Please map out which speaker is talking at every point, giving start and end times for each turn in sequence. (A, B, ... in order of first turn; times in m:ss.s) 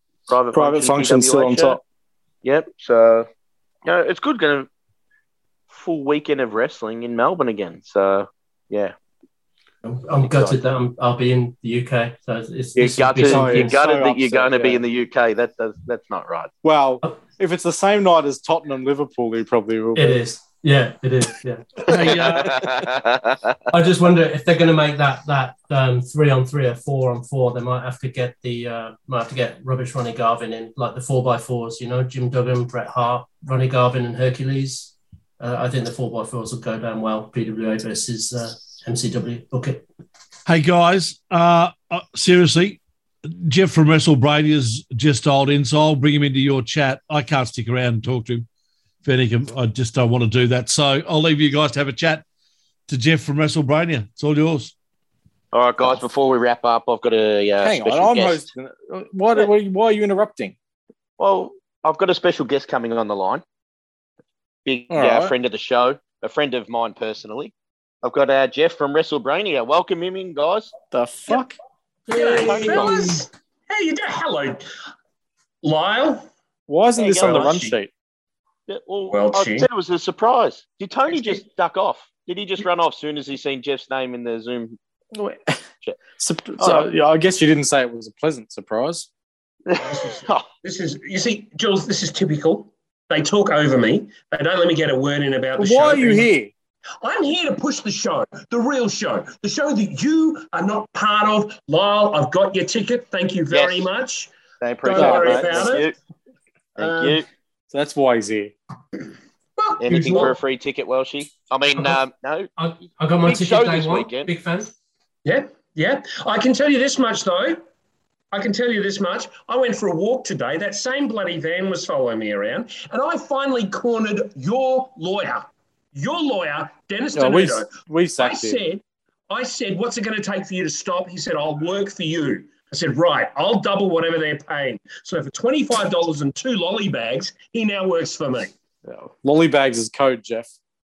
0:00.3-0:01.8 A
0:00.5-0:01.8 B
0:02.4-0:03.3 A
0:03.8-0:04.7 A
0:05.7-0:08.9 A
0:09.8-0:13.8 C
0:10.2-0:10.6 A
0:12.8-0:16.5 A
0:13.2-0:14.8 B
0:16.6-0:20.2 B
0:20.0-0:22.6 C
0:21.9-0:22.5 D
0:21.9-0:23.7 A
0:23.7-0:39.8 C
0:40.5-0:48.5 D
0:49.0-0:52.2 D
0:52.9-0:54.7 D
0:55.5-0:58.4 A
0:57.6-1:00.6 B
1:01.2-1:03.4 A
1:04.6-1:10.7 A
1:04.9-1:05.3 B
1:10.9-1:11.6 B
1:12.1-1:14.6 E
1:12.1-1:13.0 C
1:12.4-1:13.1 A
1:15.6-1:16.3 E
1:16.7-1:17.9 B
1:17.0-1:17.5 A
1:17.1-1:17.8 E
1:18.7-1:24.8 A
1:19.1-1:19.7 E
1:25.1-1:25.6 B
1:26.2-1:29.1 B
1:26.6-1:26.9 A
1:29.7-1:30.5 A
1:29.8-1:36.3 E
1:35.6-1:36.5 B
1:37.0-1:44.3 E
1:43.5-1:43.9 A
1:44.6-1:46.0 A
1:44.8-1:45.9 E
1:45.0-1:45.7 B
1:46.8-1:47.2 A
1:46.8-1:47.2 E
1:47.7-1:48.6 B
1:49.6-1:50.4 E
1:49.8-1:52.5 A
1:52.6-1:54.7 C
1:53.2-1:54.3 A
1:55.2-1:57.6 E
1:58.3-2:18.5 E
2:07.1-2:08.6 B
2:18.9-2:20.5 B